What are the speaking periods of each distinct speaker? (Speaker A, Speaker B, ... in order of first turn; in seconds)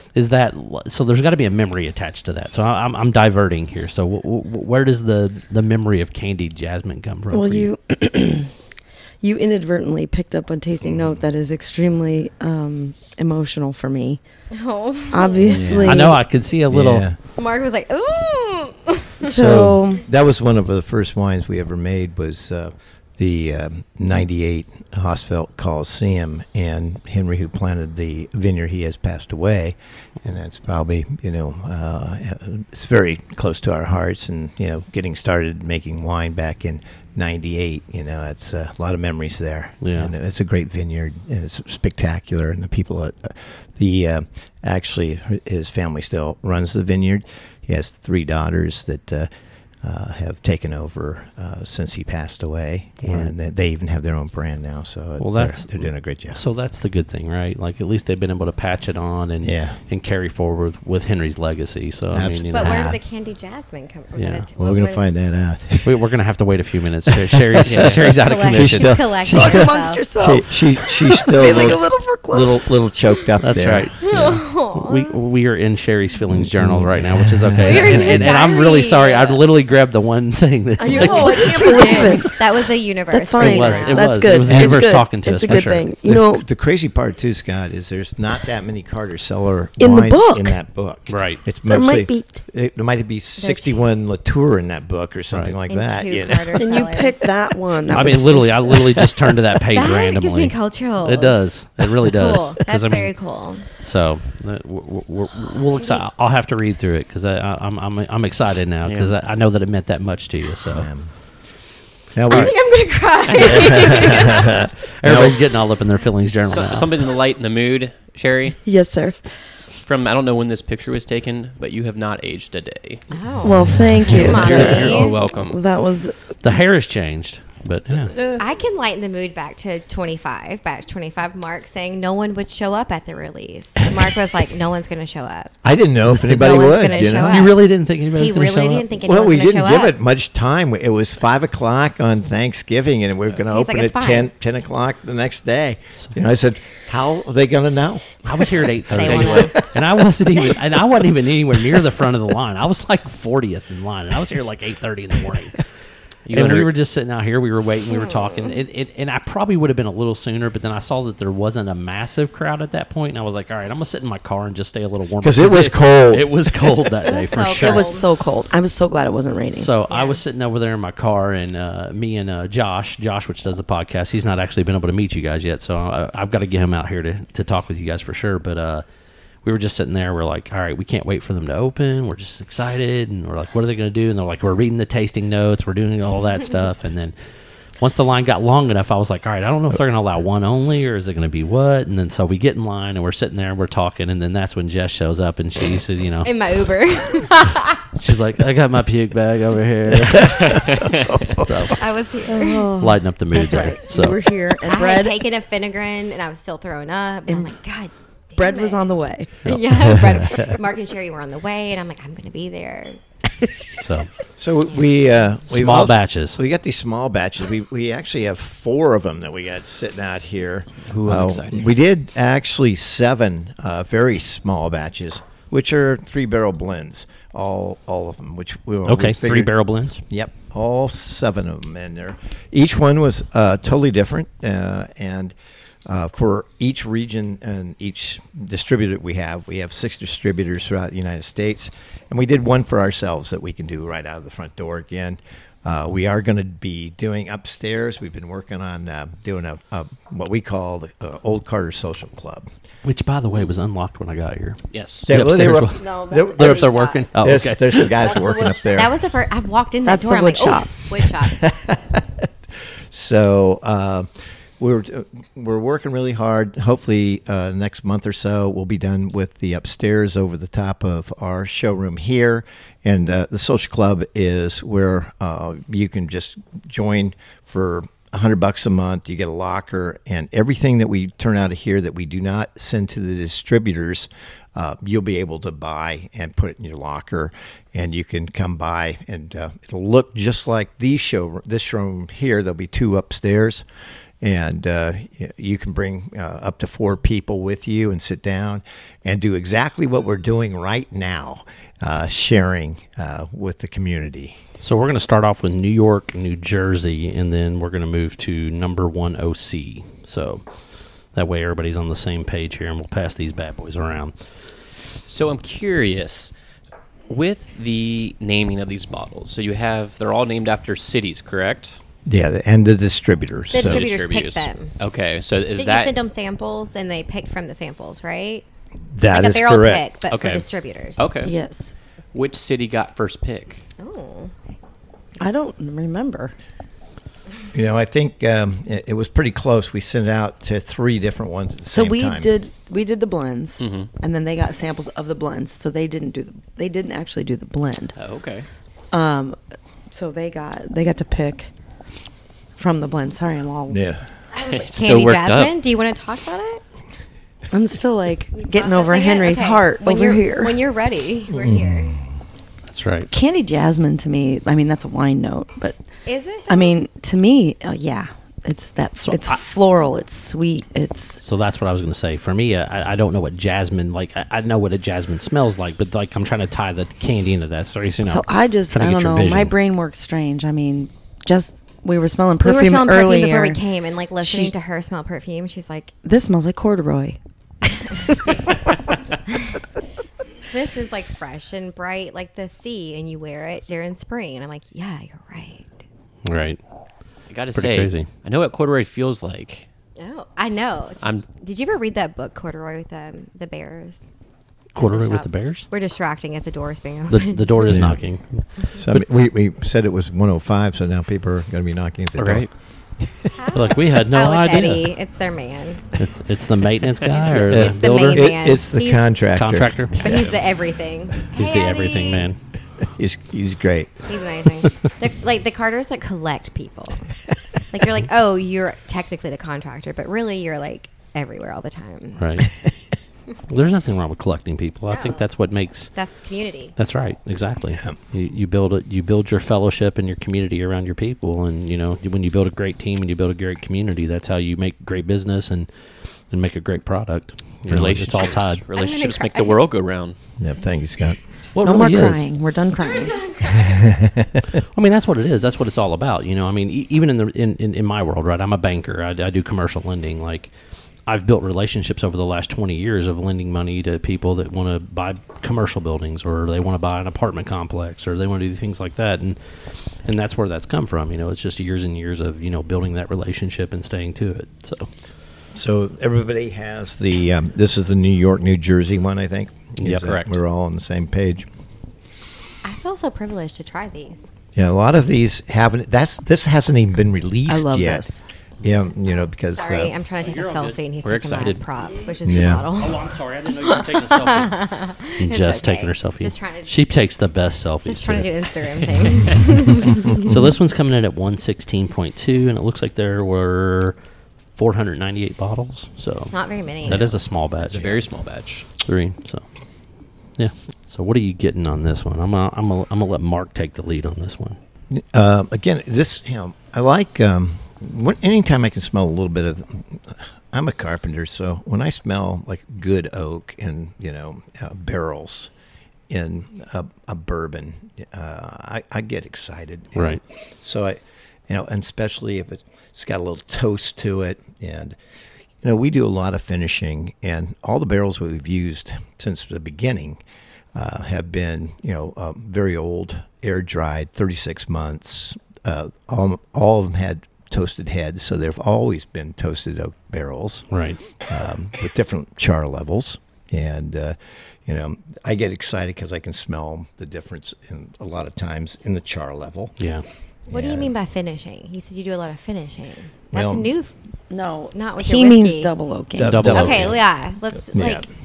Speaker A: 0.1-7.7, 15.8-17.1, 39.8-40.1, 53.0-53.3, 55.2-62.9, 64.2-64.5, 65.8-69.0, 73.4-82.1, 83.4-85.9, 91.1-91.4, 97.9-103.1, 103.8-110.9, 113.4-114.4, 115.0-116.9, 124.1-124.8, 126.4-128.2, 136.9-138.9, 148.2-155.6, 156.3-167.9, 169.5-178.8, 179.4-187.1, 187.8-196.3, 197.9-201.8, 202.8-204.2, 209.4-209.7, 213.8-214.1, 215.5-216.4, 228.8-230.0, 252.8-258.0, 304.6-310.4, 311.1-314.1, 362.7-363.1, 369.0-369.4, 371.2-379.5, 396.2-396.6, 397.5-398.1, 404.7-405.7, 407.1-409.1, 412.2-412.4, 413.5-414.9, 416.0-418.3, 419.3-420.1, 421.3-422.4, 432.2-432.5, 433.5-435.9, 436.8-445.7, 446.3-448.6, 451.5-452.2, 454.7-460.5, 461.1-469.4, 470.0-474.9, 479.8-480.2, 490.2-492.1, 492.7-503.9, 504.6-508.0, 508.8-509.4, 510.4-514.6, 529.9-530.2, 550.7-551.0, 559.8-560.0, 566.3-566.9
Speaker B: 7.3-8.5, 9.2-14.2, 15.1-16.2, 19.3-20.0, 69.3-72.7, 80.8-82.4, 83.1-86.4, 89.8-90.5, 91.7-92.4, 96.5-99.3, 118.6-119.2, 123.4-126.2, 167.6-169.7, 202.2-205.2, 208.4-209.4, 255.8-257.0, 257.9-258.8, 259.8-260.8, 331.2-331.7, 335.2-336.3, 341.7-347.9, 348.9-349.4, 349.9-351.5, 352.6-353.8, 357.5-360.6, 363.1-365.8, 366.5-371.2, 378.0-383.6, 384.2-384.5, 386.0-388.5, 451.6-453.2, 487.5-488.2, 564.3-566.5
Speaker C: 10.8-11.2, 15.4-16.1, 16.7-17.1, 19.3-49.3, 49.8-56.4, 59.4-59.8, 62.1-63.0, 64.6-66.0, 67.1-73.9, 76.3-78.2, 86.0-96.7, 110.7-111.1, 112.1-112.5, 113.4-115.4, 124.1-124.5, 135.6-137.5, 139.0-149.5, 165.2-166.3, 200.1-200.5, 201.1-201.4, 209.9-210.5, 214.4-235.3, 235.8-252.5, 255.1-259.0, 261.2-262.3, 262.9-293.6, 294.2-304.4, 322.1-323.9, 328.9-329.9, 337.5-342.3, 353.7-354.1, 361.3-362.0, 407.7-408.0, 408.8-412.5, 413.0-413.3, 417.5-420.2, 422.9-424.1, 447.6-447.9, 450.4-451.2, 453.4-454.4, 475.5-481.5, 484.6-488.1, 488.6-489.9, 492.2-492.7, 514.9-525.5, 526.1-535.0, 535.6-540.2, 540.7-550.7, 551.2-559.8, 560.5-560.9, 563.3-563.7, 566.1-567.0, 567.7-568.0
Speaker D: 14.5-15.7, 17.4-19.3, 62.5-65.0, 68.1-70.1, 74.0-75.1, 77.6-79.4, 80.8-84.4, 93.4-93.8, 95.7-97.3, 99.7-101.4, 102.0-103.7, 105.8-106.0, 112.3-114.6, 123.1-125.2, 128.3-135.5, 136.2-139.9, 143.4-144.3, 148.9-149.6, 157.9-158.6, 167.0-168.0, 169.9-170.2, 196.2-197.8, 201.7-202.7, 203.5-203.8, 204.6-208.9, 209.4-213.0, 258.7-261.4, 323.5-324.7, 325.6-328.4, 329.1-331.1, 333.8-334.3, 354.3-356.6, 358.3-362.0, 366.1-366.7, 382.4-385.9, 390.5-395.8, 400.0-404.0, 404.8-407.9, 413.3-415.9, 417.2-419.1, 420.0-422.3, 424.1-427.1, 427.7-432.2, 434.9-435.3, 435.9-436.7, 448.7-449.6, 452.8-453.8, 482.6-484.2, 489.5-497.1, 497.8-500.3, 506.3-507.1, 560.5-563.9, 564.7-565.7, 566.5-568.1
Speaker E: 67.7-68.0, 108.8-109.1, 116.4-118.6, 119.8-123.0, 124.2-125.6, 156.2-156.7, 200.8-201.1, 220.9-221.7, 254.7-255.1, 315.1-316.3, 317.1-321.8, 323.5-325.9, 330.1-330.4, 331.0-331.3, 332.1-333.6, 343.6-343.9, 348.0-348.5, 354.4-355.6, 397.3-399.7, 401.0-401.3, 412.2-412.5, 420.0-420.3, 447.7-450.1, 507.7-508.6